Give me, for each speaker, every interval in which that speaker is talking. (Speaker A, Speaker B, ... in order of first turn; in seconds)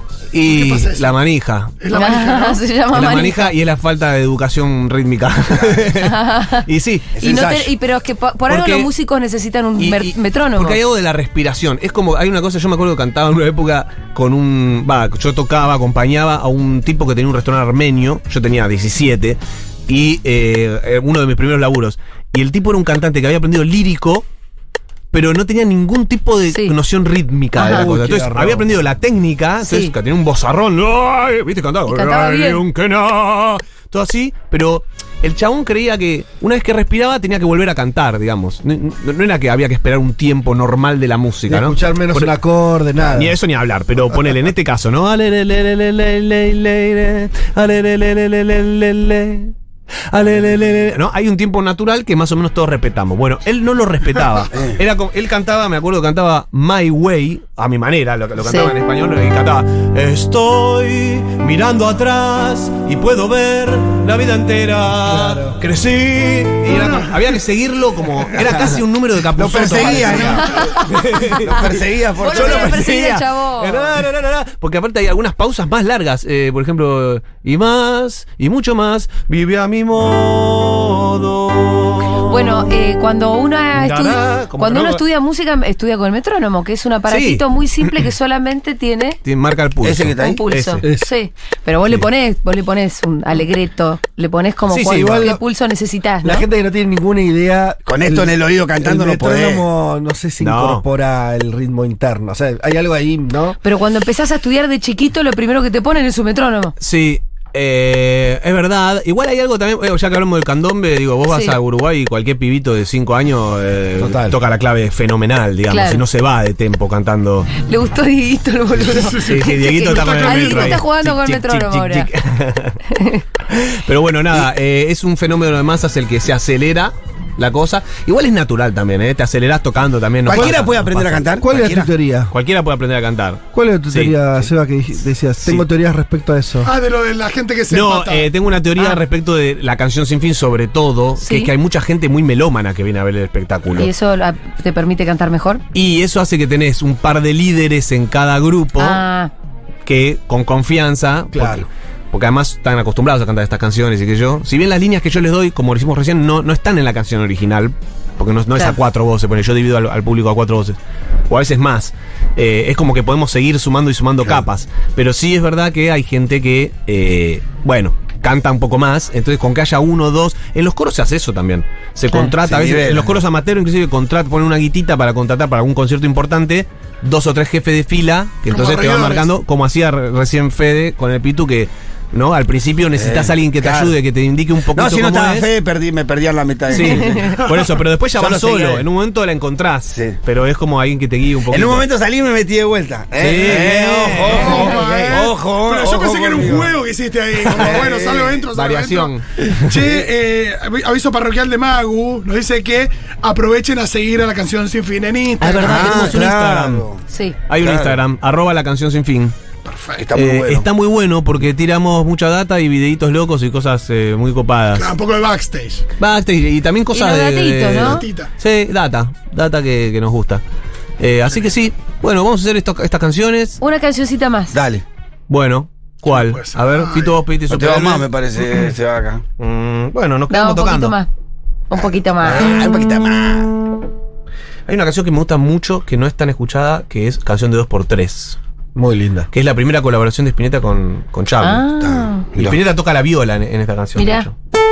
Speaker A: 0.3-2.1, 2.9-7.1, 8.5-8.9, 9.8-24.2, 25.1-42.3, 43.0-49.5, 50.1-82.7, 83.8-85.0, 87.1-88.1, 89.2-90.8, 94.7-95.4, 100.4-100.8, 106.8-117.5, 119.1-122.8, 123.5-131.2, 132.3-134.5, 137.7-143.9, 145.7-149.0, 149.8-160.8, 161.3-185.5, 186.7-191.9, 193.2-195.2, 197.4-197.8, 198.5-199.5, 205.4-206.8, 207.5-209.3, 210.1-214.9, 216.0-220.4, 221.0-223.6, 225.3-228.7, 229.4-230.9, 234.7-238.4, 239.3-241.6, 242.3-244.3
Speaker B: 0.5-1.1, 1.8-2.6, 66.7-67.1, 118.8-120.8, 136.6-138.3, 178.5-179.3, 194.1-206.2, 209.7-210.1, 214.7-215.8, 217.8-218.3, 226.1-227.2
Speaker C: 1.9-3.5, 5.9-6.7, 7.2-10.8, 27.6-27.9, 29.6-29.9, 31.9-32.6, 58.4-58.7, 70.4-70.9, 72.2-73.9, 82.2-89.2, 90.2-96.5, 103.6-106.7, 111.3-111.6, 115.7-116.0, 117.5-122.1, 122.9-123.2, 141.2-141.5, 143.7-145.6, 148.8-149.3, 186.7-187.4, 207.1-207.3, 216.9-218.0, 223.6-224.6, 230.3-231.1, 231.7-232.6, 241.4-242.3, 243.9-244.3
Speaker D: 7.2-7.7, 69.3-72.8, 89.8-90.4, 97.8-99.6, 130.2-131.9, 172.4-173.2, 183.0-183.9, 184.7-187.5, 188.2-188.8, 189.9-190.2, 191.5-196.7, 197.5-198.4, 205.6-207.0, 207.6-208.0, 210.0-210.7, 224.5-224.8, 227.5-229.2, 231.7-233.5, 241.8-242.6
Speaker E: 27.6-28.7, 41.5-43.4, 65.1-65.6, 90.8-91.1, 94.9-95.4, 96.2-103.6, 114.0-114.4, 130.3-130.7, 131.4-132.3, 133.5-136.7, 151.3-151.6, 238.8-239.3